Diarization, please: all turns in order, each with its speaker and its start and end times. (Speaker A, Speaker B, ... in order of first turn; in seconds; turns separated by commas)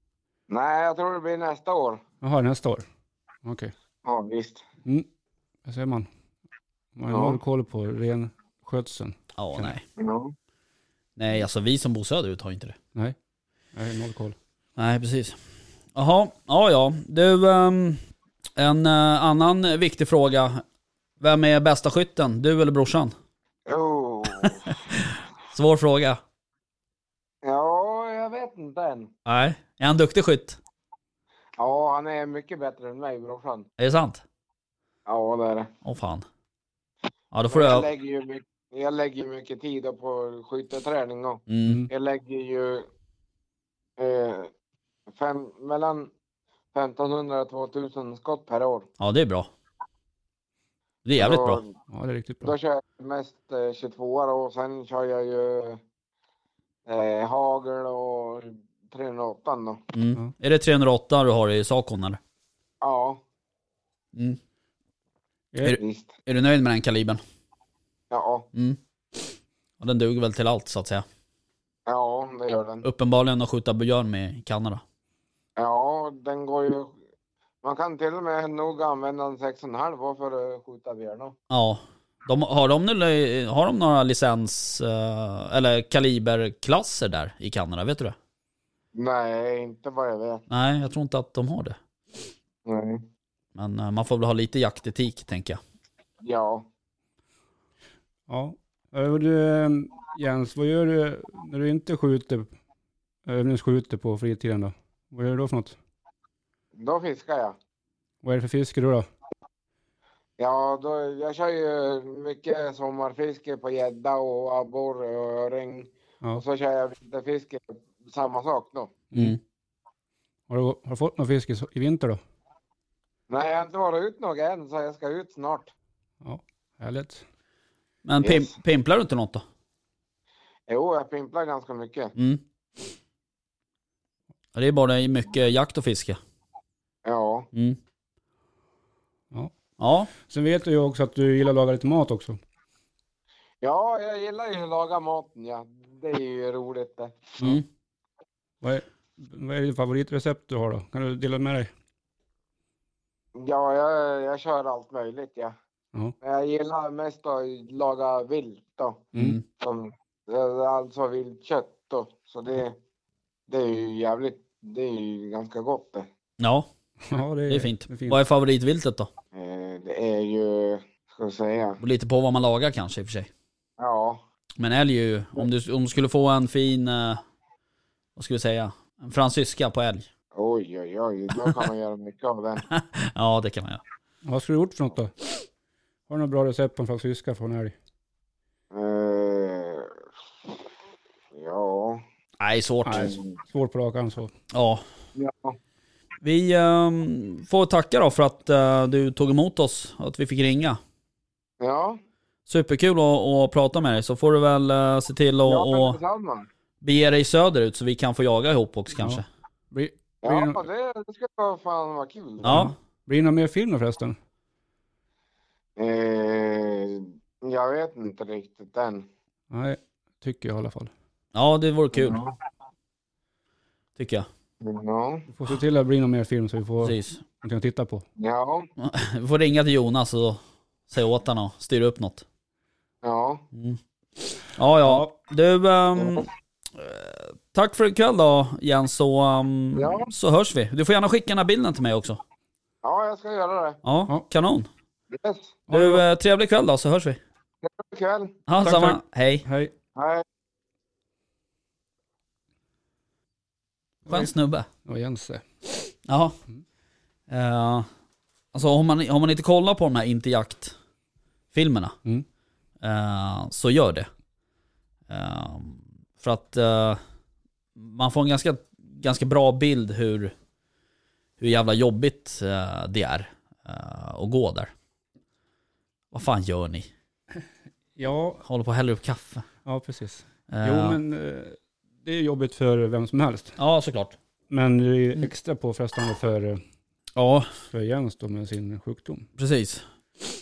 Speaker A: 0.5-2.0, Speaker B: 2.2-2.8, Speaker B: 3.4-3.7, Speaker A: 4.0-4.6, Speaker B: 5.6-6.1, Speaker B: 7.0-9.7, Speaker A: 7.1-7.4, Speaker C: 9.4-9.8, Speaker A: 10.0-10.3, Speaker C: 11.2-12.8, Speaker B: 13.7-14.3, Speaker C: 14.8-15.4, Speaker C: 15.9-18.0, Speaker C: 18.6-20.6, Speaker C: 21.2-23.1, Speaker A: 23.7-24.7, Speaker C: 24.4-26.2, Speaker A: 27.4-29.1, Speaker C: 29.2-30.6, Speaker A: 31.6-33.7, Speaker C: 33.8-34.2, Speaker A: 35.1-35.7, Speaker C: 35.8-36.2, Speaker C: 37.3-37.9, Speaker A: 37.5-42.9, Speaker C: 41.5-41.8, Speaker A: 44.0-44.5, Speaker A: 45.1-46.1, Speaker A: 46.7-48.9, Speaker C: 49.0-49.5, Speaker C: 51.0-51.6, Speaker A: 51.2-51.7, Speaker B: 51.9-52.5, Speaker A: 52.4-55.8, Speaker A: 56.9-59.8, Speaker C: 59.9-62.2, Speaker A: 62.8-63.2, Speaker C: 64.1-64.4, Speaker B: 65.5-65.8, Speaker C: 65.6-67.2, Speaker A: 65.8-66.2, Speaker A: 68.1-68.5, Speaker C: 68.5-68.8, Speaker C: 69.8-71.0, Speaker A: 71.9-72.8, Speaker C: 72.8-74.8, Speaker A: 75.6-77.0, Speaker A: 77.6-81.3, Speaker C: 81.5-88.2, Speaker A: 88.9-90.4, Speaker C: 90.5-91.8, Speaker A: 92.7-93.0, Speaker C: 93.5-95.6, Speaker A: 96.2-96.7, Speaker B: 98.3-102.5, Speaker B: 103.2-105.8, Speaker A: 106.7-107.5, Speaker B: 108.2-109.0, Speaker A: 110.4-118.9, Speaker B: 119.1-119.4, Speaker C: 119.1-119.4, Speaker B: 120.5-122.2, Speaker A: 123.3-125.7, Speaker B: 126.2-127.2, Speaker C: 128.0-129.4, Speaker A: 128.2-128.5, Speaker A: 130.7-132.1, Speaker C: 132.2-132.4, Speaker C: 134.5-136.2, Speaker A: 137.0-137.5, Speaker C: 137.5-137.8, Speaker C: 139.8-140.1, Speaker B: 140.3-142.4, Speaker A: 143.6-147.2, Speaker C: 147.4-147.6, Speaker B: 148.6-151.7, Speaker A: 153.3-155.6, Speaker A: 156.2-162.8, Speaker C: 159.2-159.4, Speaker A: 163.5-166.1, Speaker C: 166.4-166.7, Speaker B: 167.1-168.2, Speaker C: 167.5-169.1, Speaker A: 169.3-171.8, Speaker C: 171.8-173.3, Speaker A: 173.8-174.2, Speaker C: 174.6-177.2, Speaker C: 178.2-180.1, Speaker A: 180.3-182.6, Speaker C: 182.7-183.8, Speaker B: 184.2-185.1, Speaker B: 186.1-187.7, Speaker A: 188.7-190.0, Speaker A: 191.3-192.0, Speaker C: 192.4-193.2, Speaker B: 192.8-194.3, Speaker C: 194.5-194.8, Speaker A: 195.2-195.6, Speaker C: 196.2-200.8, Speaker A: 201.6-202.0, Speaker C: 202.5-206.0, Speaker A: 205.4-206.5, Speaker C: 206.8-209.2, Speaker B: 209.0-210.6, Speaker A: 210.2-212.7, Speaker C: 212.4-212.7, Speaker B: 212.4-214.2, Speaker A: 215.8-219.1, Speaker B: 219.5-220.9, Speaker C: 221.3-222.2, Speaker A: 221.9-222.3, Speaker C: 224.0-224.3, Speaker A: 224.6-225.3, Speaker B: 225.3-228.0, Speaker C: 226.8-227.2, Speaker A: 228.2-228.7, Speaker C: 228.8-232.2, Speaker A: 233.0-233.4, Speaker C: 233.5-233.8, Speaker C: 234.5-242.2, Speaker B: 234.8-235.1, Speaker A: 235.9-236.3, Speaker A: 239.7-240.1, Speaker A: 242.8-243.8, Speaker C: 243.8-244.7, Speaker A: 245.1-245.6, Speaker B: 245.7-246.0, Speaker C: 245.7-247.2, Speaker A: 247.6-248.3, Speaker C: 248.5-249.4, Speaker B: 248.6-249.7, Speaker A: 249.9-250.2, Speaker B: 254.1-254.3, Speaker C: 254.1-254.7, Speaker B: 254.8-255.4, Speaker C: 256.0-256.4, Speaker C: 257.3-257.9, Speaker C: 258.5-260.7, Speaker C: 261.5-261.9, Speaker C: 262.8-264.1, Speaker C: 265.1-267.0, Speaker C: 267.8-270.3, Speaker C: 271.4-274.7, Speaker C: 276.1-276.9, Speaker B: 278.0-278.4, Speaker C: 278.4-279.4, Speaker B: 279.6-283.6, Speaker C: 280.5-281.0, Speaker C: 283.6-284.2, Speaker B: 284.5-286.6, Speaker C: 287.1-287.5, Speaker B: 287.7-289.3, Speaker C: 289.4-289.8